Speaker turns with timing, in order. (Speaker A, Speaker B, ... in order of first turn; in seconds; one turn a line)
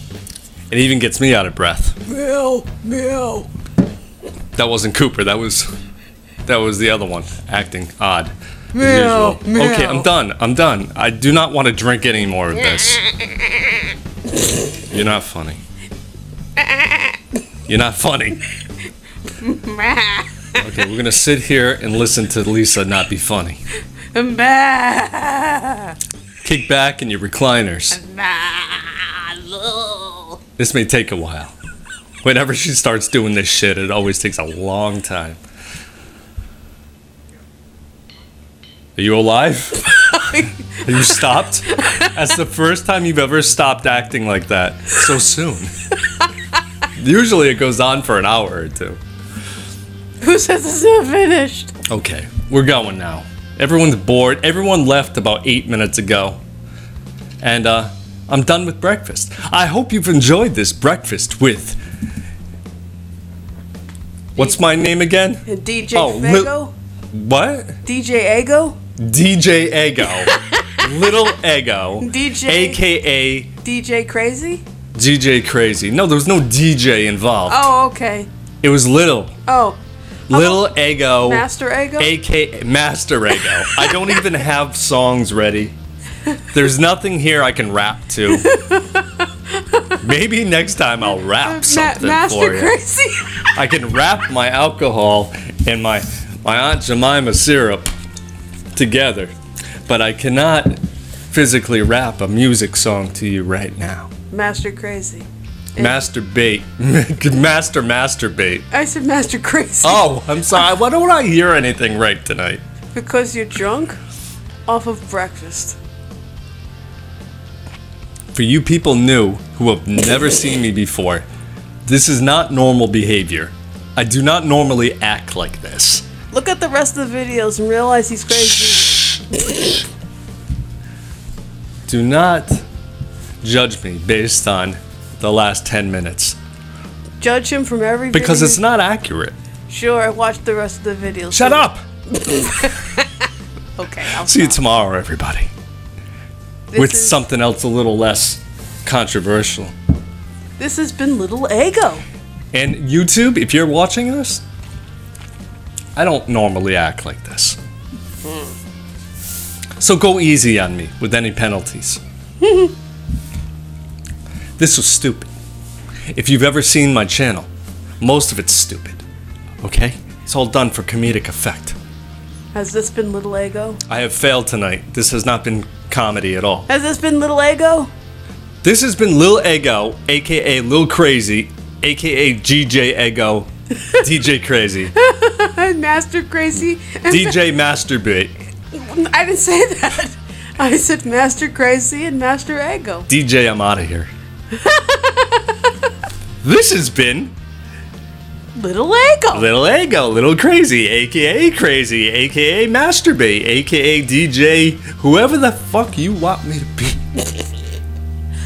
Speaker A: 0.7-2.0
Speaker B: 2.1-3.5
Speaker A: 4.5-5.7
Speaker A: 6.5-13.0
Speaker B: 8.7-10.1
Speaker B: 12.8-13.5
Speaker A: 14.8-15.6
Speaker B: 16.6-17.2
Speaker A: 17.7-18.4
Speaker B: 19.3-20.8
Speaker A: 20.6-23.6
Speaker B: 24.1-25.9
Speaker A: 26.4-28.0
Speaker B: 27.9-30.4
Speaker A: 30.6-31.5
Speaker A: 32.2-35.4
Speaker A: 39.0-39.9
Speaker B: 39.8-42.2
Speaker A: 40.7-45.7
Speaker A: 47.0-49.0
Speaker B: 50.2-51.7
Speaker A: 51.9-56.4
Speaker A: 57.4-61.8
Speaker A: 64.3-65.4
Speaker B: 65.4-66.7
Speaker A: 65.9-66.5
Speaker A: 67.1-67.8
Speaker B: 67.8-68.8
Speaker A: 69.0-73.5
Speaker B: 70.0-71.2
Speaker B: 72.0-72.8
Speaker B: 73.6-74.6
Speaker A: 74.9-77.7
Speaker B: 77.5-78.3
Speaker A: 78.6-79.3
Speaker B: 79.5-79.8
Speaker A: 80.3-81.5
Speaker B: 80.3-82.1
Speaker A: 82.0-85.7
Speaker B: 83.4-84.3
Speaker A: 86.5-88.5
Speaker B: 88.3-90.0
Speaker A: 90.0-92.7
Speaker B: 91.3-93.5
Speaker A: 93.5-97.9
Speaker A: 98.7-99.3
Speaker A: 99.9-104.1
Speaker B: 104.3-106.0
Speaker A: 105.8-108.6
Speaker B: 108.7-110.6
Speaker A: 109.8-112.6
Speaker B: 112.9-114.0
Speaker B: 114.7-115.8
Speaker A: 118.3-121.2
Speaker A: 121.8-126.0
Speaker B: 126.3-129.8
Speaker A: 131.9-132.6
Speaker A: 133.4-136.4
Speaker B: 137.2-138.6
Speaker A: 138.1-139.3
Speaker B: 139.7-144.6
Speaker A: 141.3-141.8
Speaker A: 144.1-145.5
Speaker B: 146.7-147.2
Speaker A: 146.7-149.7
Speaker B: 150.6-152.0
Speaker A: 152.5-154.4
Speaker A: 155.9-157.6
Speaker A: 159.8-162.0
Speaker B: 162.4-162.7
Speaker A: 164.6-165.3
Speaker A: 166.1-167.5
Speaker A: 168.0-169.0
Speaker A: 169.6-171.8
Speaker B: 172.5-173.8
Speaker A: 173.9-176.7
Speaker B: 176.7-177.9
Speaker A: 178.6-184.9
Speaker B: 184.9-187.4
Speaker A: 187.1-188.3
Speaker B: 188.7-193.1
Speaker A: 193.1-194.1
Speaker B: 194.5-195.7
Speaker A: 196.4-197.3
Speaker B: 198.5-199.5
Speaker A: 199.3-207.0